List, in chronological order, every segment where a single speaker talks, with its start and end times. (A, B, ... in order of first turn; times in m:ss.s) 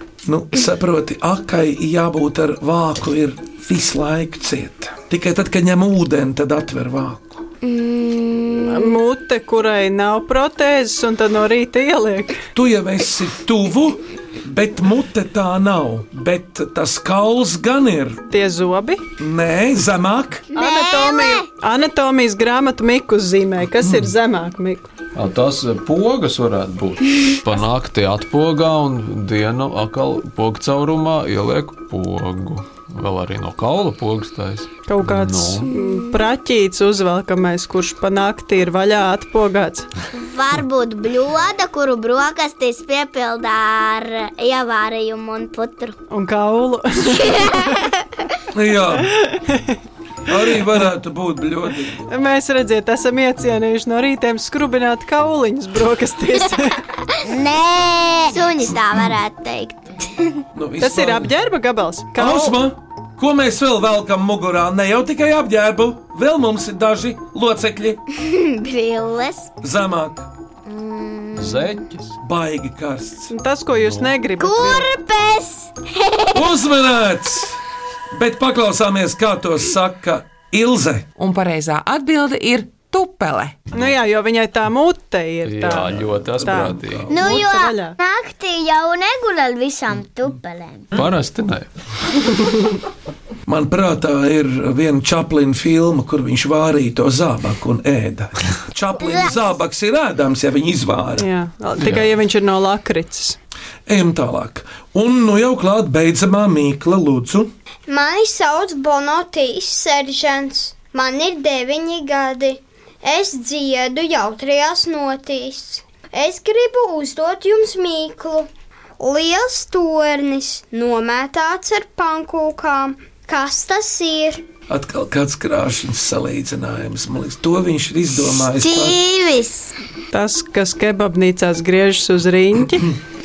0:00.2-0:07.4 A
0:07.6-0:08.9 B
0:08.6-0:12.4 C
0:12.5-0:18.2 A
0:18.3-0:19.0 C
0:19.2-0:20.5 A
0:20.5-0:21.4 B
0:20.5-0:24.9 C
0:23.8-0:24.1 A
0:25.1-0:35.7 D
0:34.9-0:39.9 C
0:35.7-0:36.1 B
0:40.1-0:46.0 B
0:46.1-0:47.8 C
0:47.3-0:47.8 B
0:48.5-0:49.1 A
0:49.3-0:49.8 C
0:50.2-0:52.1 A
0:52.1-0:56.8 C
0:57.2-0:58.4 E
0:58.3-1:00.3 B
1:00.5-1:01.3 A
1:00.8-1:02.6 C
1:02.2-1:08.0 A
1:08.1-1:09.5 B
1:09.6-1:10.3 A
1:10.7-1:11.7 B
1:11.4-1:12.2 D
1:12.2-1:13.3 A
1:13.3-1:14.9 C
1:13.8-1:14.2 D
1:14.4-1:16.4 B
1:16.3-1:17.6 A
1:18.1-1:21.1 A
1:21.2-1:23.6 F
1:23.7-1:28.0 C
1:25.4-1:27.1 D
1:26.4-1:27.3 A
1:27.1-1:30.8 E
1:30.9-1:31.7 D
1:33.4-1:41.3 A
1:41.2-1:43.4 C
1:41.8-1:42.1 D
1:43.9-1:47.5 A
1:47.9-1:58.5 G
1:59.0-2:04.4 G
2:04.7-2:09.0 A
2:08.4-2:09.7 B
2:10.1-2:12.9 C